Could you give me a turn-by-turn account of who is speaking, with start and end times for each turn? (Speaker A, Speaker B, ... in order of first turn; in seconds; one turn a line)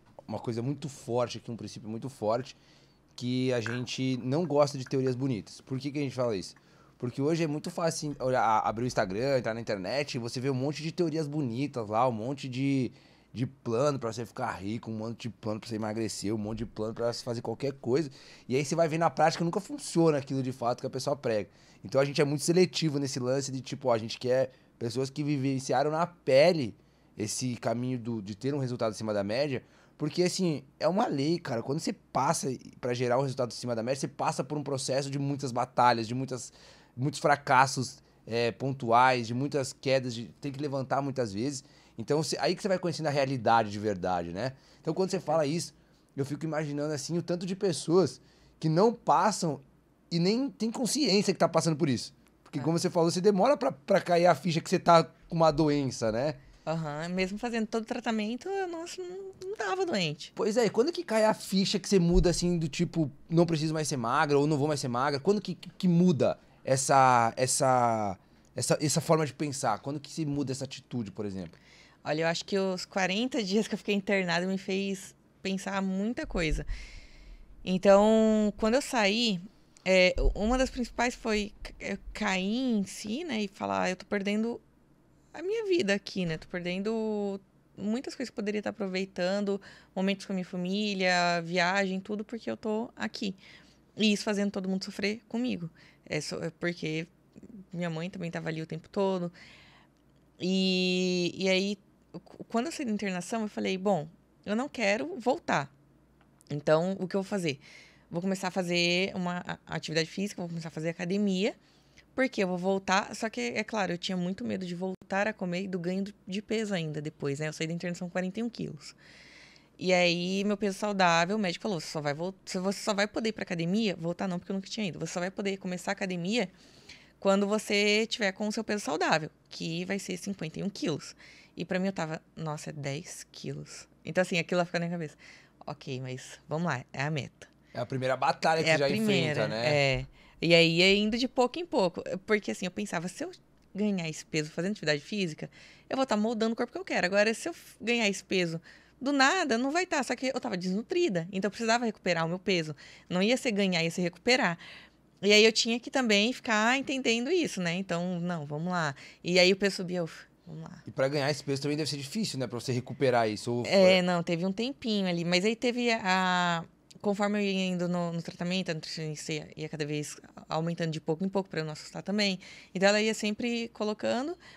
Speaker A: 0.3-2.6
Speaker A: 3.2-56.4
Speaker B: 56.7-60.3
Speaker A: 60.4-71.5
Speaker B: 72.0-76.7
Speaker B: 77.6-84.6
Speaker B: 85.3-93.4
Speaker B: 94.0-97.1
Speaker B: 97.7-99.3
Speaker B: 100.4-105.7
Speaker B: 106.5-111.6
Speaker B: 112.1-119.0
Speaker B: 119.8-126.5
Speaker B: 127.2-137.5
Speaker A: 137.7-139.8
Speaker B: 138.6-154.6
Speaker B: 155.2-160.8
Speaker A: 160.8-164.0
Speaker B: 163.6-174.4